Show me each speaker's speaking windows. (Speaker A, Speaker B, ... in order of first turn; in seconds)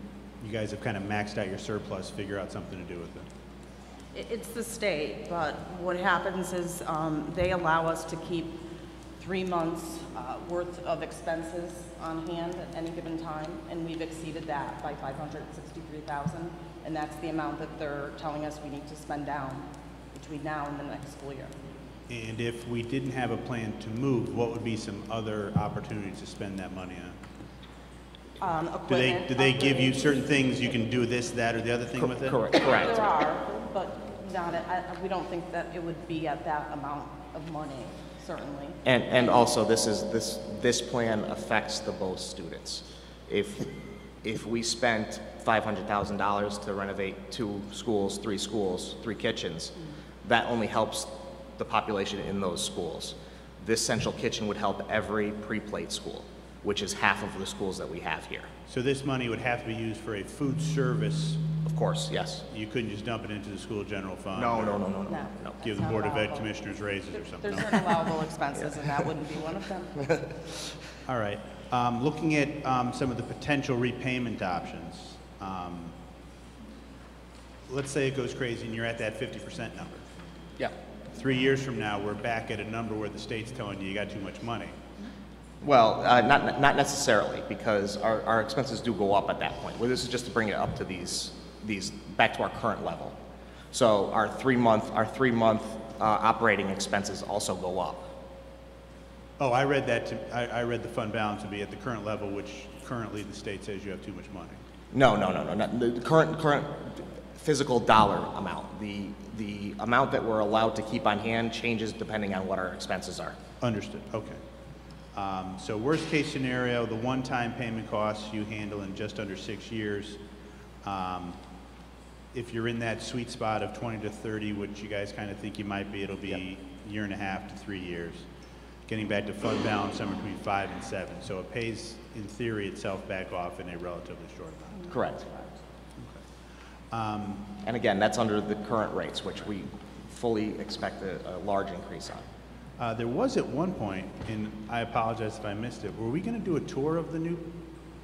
Speaker A: 0.4-3.3, 22.1-27.2, 28.9-32.4, 58.7-61.5, 62.5-64.9, 65.6-67.8, 71.1-76.0, 77.7-80.1, 81.1-84.8, 99.4-104.6, 113.6-114.4, 115.2-120.2, 120.8-121.4, 122.3-128.3, 128.9-134.9, 136.0-136.2, 136.9-137.5, 142.8-147.5
Speaker B: 4.2-8.6, 9.2-21.5, 28.4-30.6, 32.5-39.4, 65.1-66.6, 67.1-70.1, 134.8-135.5
Speaker C: 32.0-33.1, 38.9-43.7, 44.2-58.5, 61.6-62.4, 64.3-65.6, 85.6-93.2, 93.7-98.1, 104.9-113.4, 134.9-135.2, 137.6-142.2